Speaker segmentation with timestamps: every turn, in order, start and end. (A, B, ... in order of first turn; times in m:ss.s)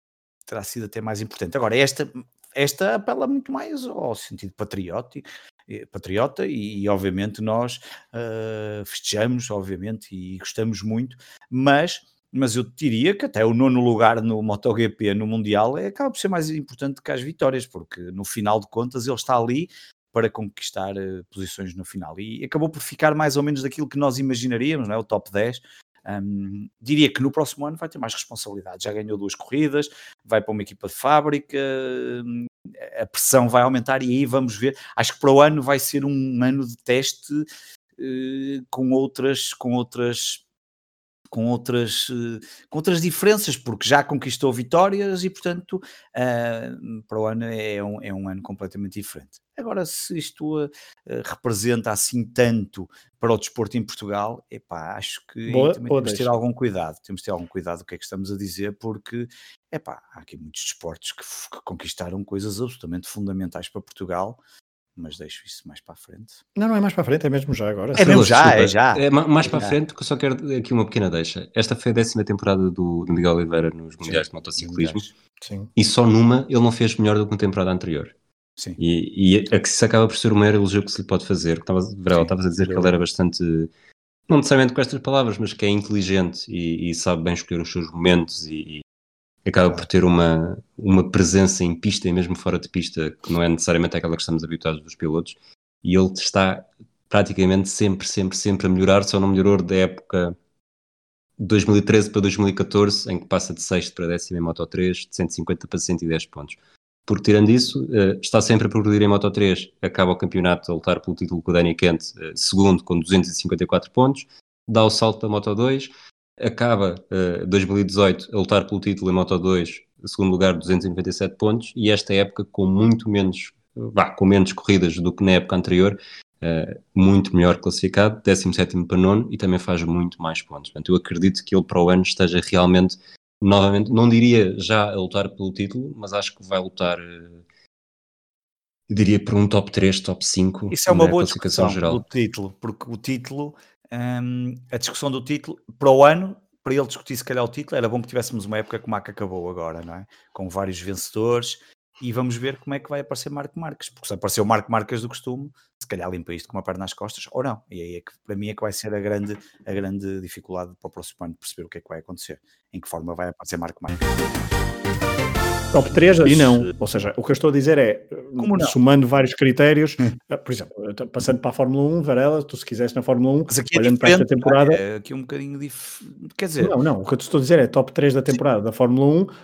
0:00.5-0:37.5 A
0:38.0-0:40.4 A
0:41.3-1:04.4 A
0:55.5-0:56.4 B
1:05.0-1:06.4 A
1:06.6-1:08.3 B
1:08.0-1:09.8 A
1:08.0-1:15.1 C
1:14.0-1:15.1 A
1:15.4-1:15.7 B
1:15.8-1:18.1 C
1:18.8-1:23.7 C
1:22.1-1:22.9 A
1:24.3-1:28.8 C
1:29.5-1:40.4 C
1:41.4-2:17.4 C
2:18.9-2:22.0 C
2:20.7-2:44.0 A
2:45.7-2:54.8 B
2:46.2-2:46.7 A
2:48.4-2:48.8 A
2:53.5-2:56.8 A
2:56.6-2:59.3 B